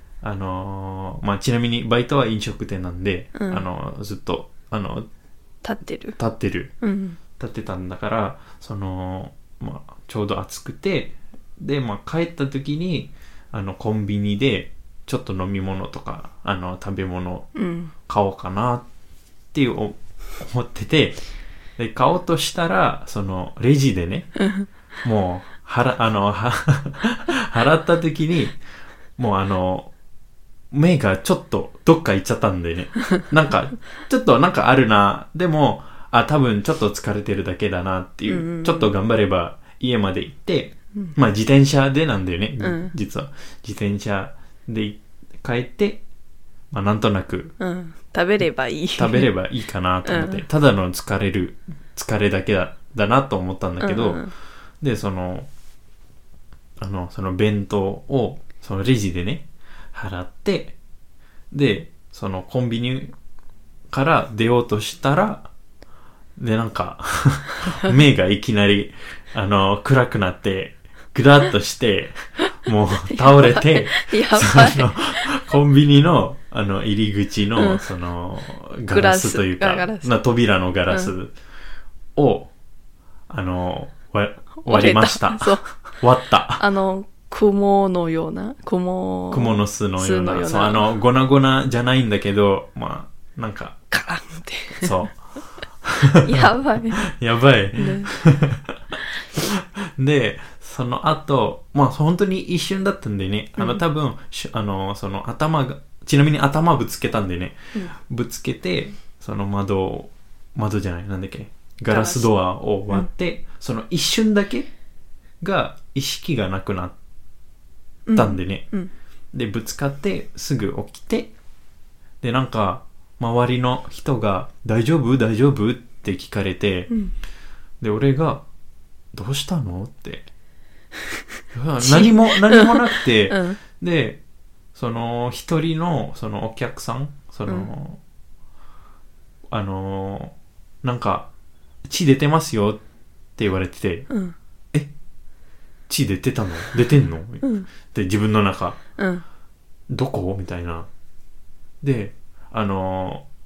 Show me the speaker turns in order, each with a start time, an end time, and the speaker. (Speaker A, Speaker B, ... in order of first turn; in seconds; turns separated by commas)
Speaker A: 0.2-5.1, Speaker B: 3.4-3.6, Speaker B: 5.6-6.2, Speaker A: 6.2-6.7, Speaker B: 6.8-7.2, Speaker A: 7.4-17.5, Speaker B: 17.6-17.9, Speaker A: 18.1-18.9, Speaker A: 19.5-21.2, Speaker A: 21.8-24.4, Speaker B: 24.4-24.7, Speaker A: 25.0-28.6, Speaker A: 29.2-29.9, Speaker A: 30.7-46.0, Speaker B: 38.3-38.9, Speaker B: 42.6-42.9, Speaker A: 46.7-47.5, Speaker B: 47.6-49.3, Speaker A: 49.0-54.3, Speaker B: 50.0-50.4, Speaker B: 53.8-54.3, Speaker A: 54.8-55.5, Speaker A: 56.8-60.8, Speaker A: 61.5-63.1, Speaker A: 63.9-65.5, Speaker A: 66.4-81.3, Speaker B: 73.1-75.3, Speaker B: 77.6-77.8, Speaker B: 78.9-80.1, Speaker A: 82.2-82.5, Speaker A: 83.3-86.6, Speaker B: 84.6-85.8, Speaker B: 86.6-90.9, Speaker A: 89.3-93.8, Speaker B: 93.9-94.9, Speaker A: 94.8-114.7, Speaker B: 96.2-97.1, Speaker B: 97.8-98.1, Speaker B: 111.9-112.3, Speaker A: 115.4-117.0, Speaker B: 118.1-118.9, Speaker A: 118.2-118.7, Speaker A: 119.3-121.3, Speaker A: 122.2-126.9, Speaker A: 127.8-128.4, Speaker A: 129.1-130.3, Speaker A: 131.5-134.2, Speaker B: 131.8-133.6, Speaker A: 134.8-138.0, Speaker A: 139.5-141.3, Speaker A: 141.8-142.8, Speaker A: 143.4-144.1, Speaker B: 144.1-144.3, Speaker A: 145.9-148.8, Speaker B: 147.4-147.7, Speaker B: 149.0-149.2, Speaker A: 149.9-150.9, Speaker A: 151.8-153.3